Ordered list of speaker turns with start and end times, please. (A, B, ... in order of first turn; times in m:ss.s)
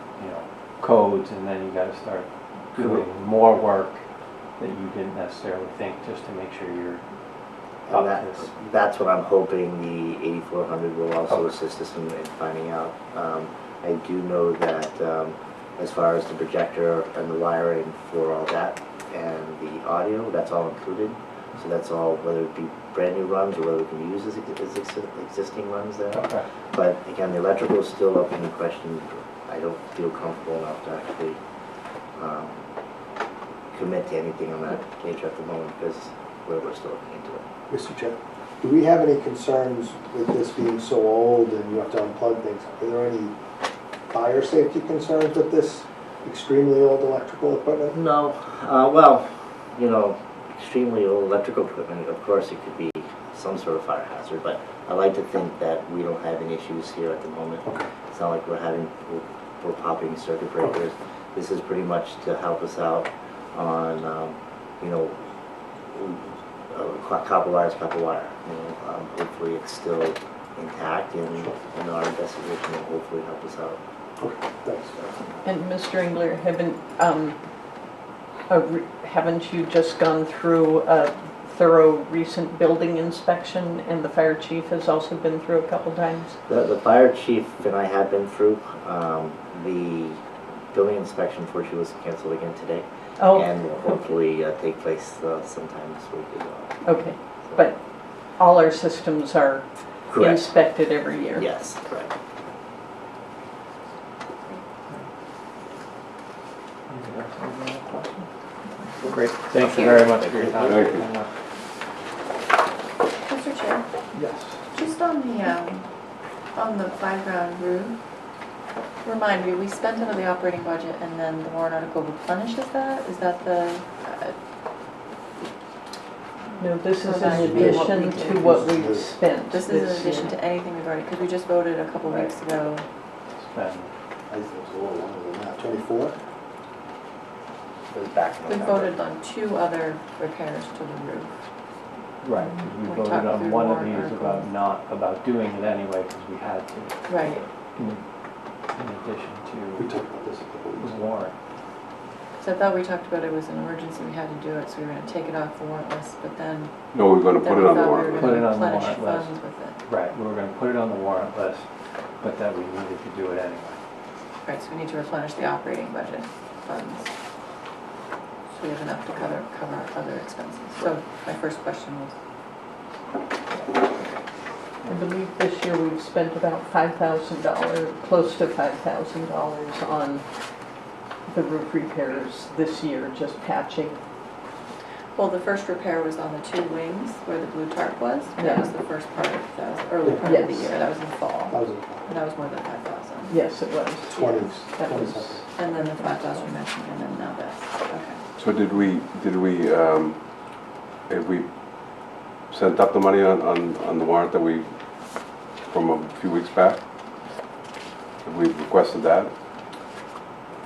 0:00.2-0:04.0 A
0:02.8-0:03.0 B
0:04.6-0:07.0 A
0:07.9-0:31.4 B
0:07.9-0:08.5 A
0:26.1-0:26.4 A
0:32.2-0:32.6 B
0:33.7-0:37.4 B
0:37.7-0:43.3 C
0:44.1-0:48.0 C
0:47.9-1:05.2 B
0:57.6-0:57.9 C
1:05.9-1:13.8 B
1:14.2-1:15.0 C
1:15.4-1:17.4 D
1:18.5-1:26.4 D
1:26.5-1:30.2 B
1:30.7-1:36.8 B
1:33.2-1:34.1 D
1:36.8-1:37.8 D
1:38.4-1:41.5 D
1:40.1-1:40.5 B
1:41.3-1:42.1 B
1:46.9-1:48.3 A
1:48.6-1:49.2 E
1:49.0-1:51.3 A
1:50.6-1:51.0 F
1:53.2-1:53.8 E
1:54.1-1:54.6 A
1:54.7-1:55.8 E
1:56.5-1:58.0 E
1:59.0-2:04.4 E
2:06.5-2:08.4 E
2:06.6-2:10.3 D
2:07.2-2:09.1 C
2:07.2-2:08.0 A
2:09.5-2:12.8 E
2:13.3-2:13.9 A
2:14.3-2:16.2 C
2:17.9-2:19.0 B
2:18.5-2:21.3 E
2:22.2-2:28.0 A
2:22.4-2:24.5 E
2:27.1-2:27.5 E
2:28.8-2:29.9 A
2:29.8-2:31.0 C
2:30.8-2:31.3 A
2:32.4-2:36.7 E
2:36.9-2:38.4 F
2:37.4-2:39.8 E
2:38.2-2:39.3 A
2:39.9-2:41.6 A
2:42.2-2:43.8 A
2:44.4-2:47.1 E
2:48.5-2:52.2 E
2:54.8-3:00.2 D
3:01.3-3:04.0 D
3:05.2-3:13.4 E
3:08.4-3:08.7 D
3:10.2-3:10.7 D
3:11.5-3:12.1 C
3:13.3-3:16.3 D
3:14.1-3:15.4 C
3:15.6-3:18.2 E
3:18.4-3:20.2 F
3:21.1-3:21.5 F
3:22.5-3:24.7 F
3:25.7-3:26.8 F
3:28.2-3:29.3 F